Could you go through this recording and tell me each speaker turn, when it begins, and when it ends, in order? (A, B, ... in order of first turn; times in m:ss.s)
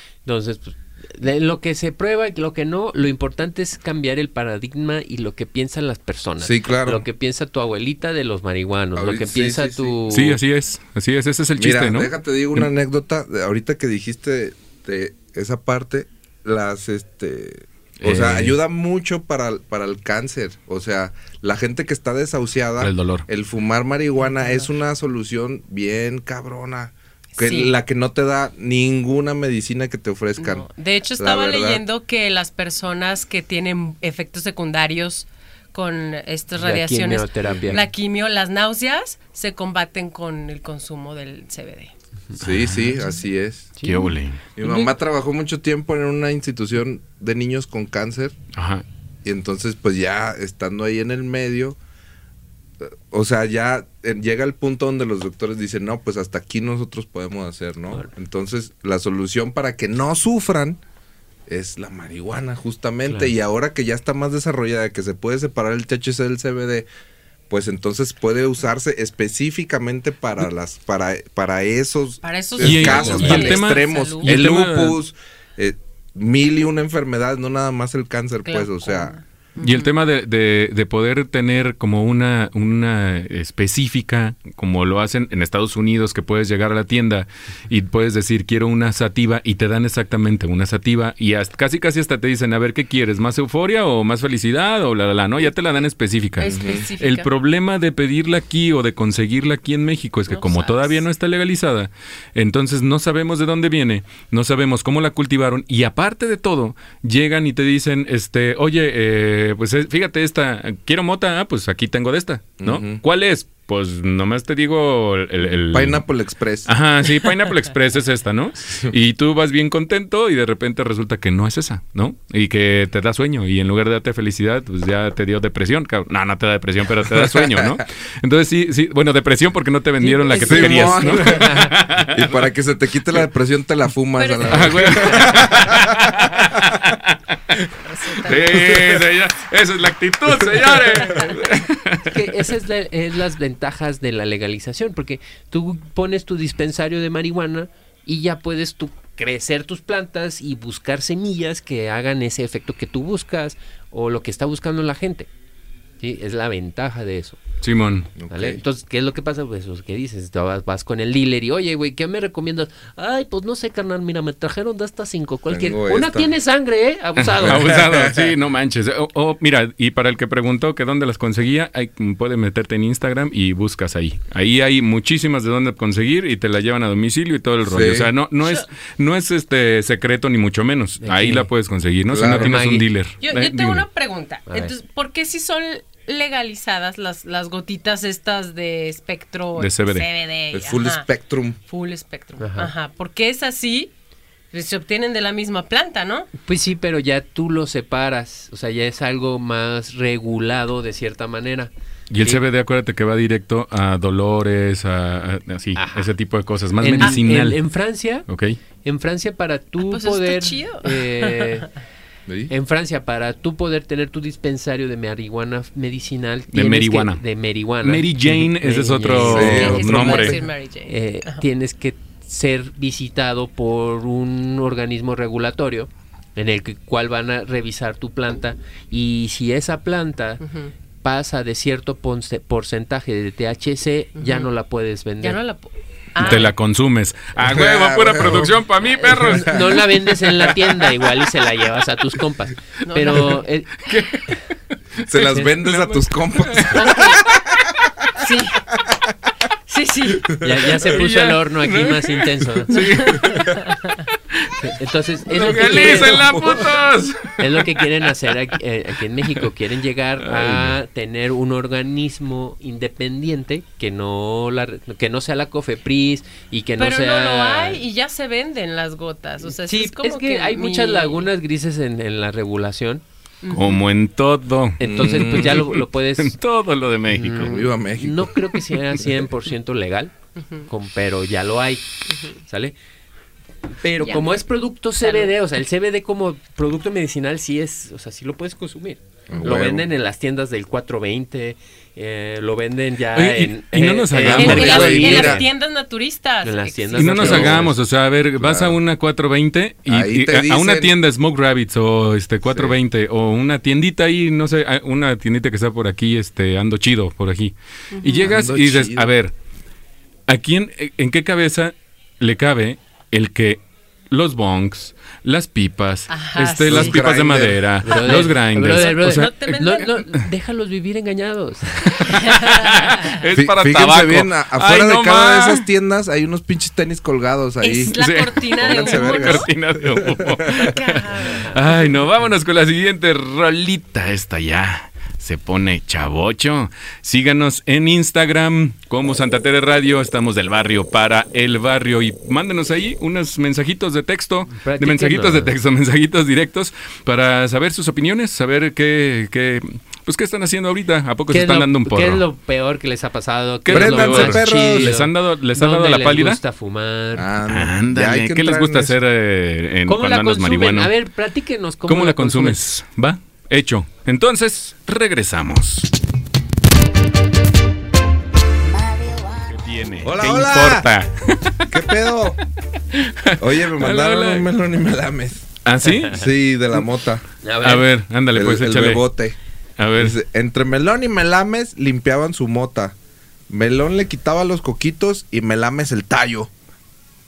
0:00.2-0:10.4 A
0:06.4-0:07.0 B
0:09.0-0:10.0 B
0:10.1-0:12.6 C
0:11.6-0:31.8 B
0:18.0-0:18.5 C
0:22.8-0:23.2 C
0:24.2-0:24.7 D
0:27.4-0:27.7 D
0:30.4-0:41.9 D
0:36.6-0:37.8 A
0:37.5-0:37.8 B
0:42.4-0:43.8 B
0:42.4-0:43.0 C
0:43.8-0:44.1 A
0:43.8-0:44.4 C
0:44.6-0:48.3 B
0:44.6-0:44.9 D
0:48.5-0:48.8 C
0:49.2-0:51.8 B
0:52.8-1:00.8 B
1:01.5-1:06.9 B
1:03.1-1:03.3 A
1:07.5-1:19.1 B
1:12.2-1:14.4 D
1:12.6-1:15.0 C
1:18.4-1:19.9 D
1:19.6-1:56.0 C
1:36.4-1:37.3 D
1:36.4-1:36.8 B
1:40.3-1:41.0 D
1:52.6-1:53.0 B
1:55.7-1:56.7 B
1:56.6-2:12.3 C
2:07.1-2:07.8 B
2:10.0-2:11.8 A
2:10.3-2:16.3 B
2:14.2-2:15.6 D
2:14.5-2:22.4 C
2:17.6-2:19.0 D
2:21.0-2:21.5 D
2:22.0-2:35.3 A
2:36.0-2:37.4 A
2:37.6-2:38.1 C
2:38.2-2:38.6 B
2:38.3-2:47.7 A
2:45.5-2:46.3 B
2:47.2-3:03.8 C
2:47.4-2:48.3 B
2:57.6-2:58.1 B
3:01.0-3:01.5 A
3:02.1-3:02.6 B
3:02.3-3:02.8 A
3:03.2-3:11.0 D
3:09.6-3:10.0 C
3:10.5-3:11.6 B
3:11.7-3:13.9 D
3:12.4-3:12.7 A
3:14.5-3:16.3 D
3:16.4-3:22.4 A
3:22.1-3:27.6 C
3:25.8-3:26.1 A
3:26.8-3:28.2 A
3:28.3-3:28.6 C
3:28.8-3:31.7 A
3:29.8-3:31.6 D
3:32.3-3:32.5 B
3:32.5-3:40.3 A
3:36.5-3:37.2 C
3:37.8-3:40.4 C
3:39.2-3:40.3 B
3:39.4-3:41.4 D
3:40.8-3:50.4 A
3:50.4-3:50.7 D
3:51.0-3:55.4 A
3:54.2-3:54.5 D
3:55.2-3:56.5 D
3:56.2-4:01.3 C
3:57.4-3:58.5 B
3:59.1-4:03.7 A
3:59.1-3:59.7 B
4:02.8-4:03.4 D
4:03.8-4:04.4 C
4:05.0-4:07.2 C
4:05.0-4:07.7 B
4:05.2-4:05.4 A
4:06.7-4:07.3 D
4:08.2-4:08.6 D
4:09.7-4:10.4 D
4:10.4-4:12.8 A
4:10.9-4:13.8 C
4:12.7-4:14.0 D
4:14.3-4:14.6 C
4:14.6-4:16.2 A
4:15.3-4:17.9 C
4:15.4-4:16.2 D
4:16.1-4:16.8 B
4:17.4-4:27.8 A
4:20.2-4:20.8 C
4:26.8-4:31.3 D
4:29.6-4:33.0 A
4:33.4-4:33.8 D
4:33.5-4:37.6 C
4:34.8-4:36.4 A
4:34.9-4:35.6 B
4:37.1-4:40.1 A
4:37.4-4:38.3 B
4:40.4-4:40.7 D
4:40.7-4:42.7 A
4:43.8-4:55.5 A
4:44.0-4:44.4 D
4:45.0-4:45.3 D
4:49.3-4:49.9 B
4:53.1-4:55.1 C
4:54.2-4:55.4 B
4:54.3-4:57.5 D
4:56.4-4:57.7 A
4:57.0-5:09.3 C
4:57.2-4:57.8 B
4:58.4-4:58.8 B
4:59.9-5:00.9 B
5:02.5-5:02.8 B
5:07.9-5:08.3 D
5:08.2-5:09.1 B
5:10.3-5:19.6 C
5:16.1-5:16.9 D
5:16.7-5:17.8 B
5:17.8-5:22.2 A
5:17.9-5:20.0 D
5:22.0-5:23.2 D
5:22.0-5:25.6 C
5:23.3-5:30.7 B
5:27.6-5:29.5 D
5:27.9-5:52.2 C
5:30.6-5:31.8 D
5:44.5-5:45.5 A
5:51.3-5:57.3 A
5:53.6-5:56.4 C
5:53.7-5:54.9 B
5:57.2-5:59.0 B
5:57.5-6:00.9 C
5:59.8-6:02.7 A
6:01.9-6:05.9 C
6:09.4-6:11.7 C
6:10.0-6:10.9 B
6:11.7-6:12.4 B
6:12.9-6:14.4 C
6:13.4-6:15.5 B
6:15.6-6:16.3 C
6:16.1-6:17.2 B
6:17.4-6:17.9 A
6:17.6-6:19.0 C
6:18.3-6:19.4 B
6:19.8-6:20.2 C
6:20.0-6:23.0 B
6:23.5-6:26.5 B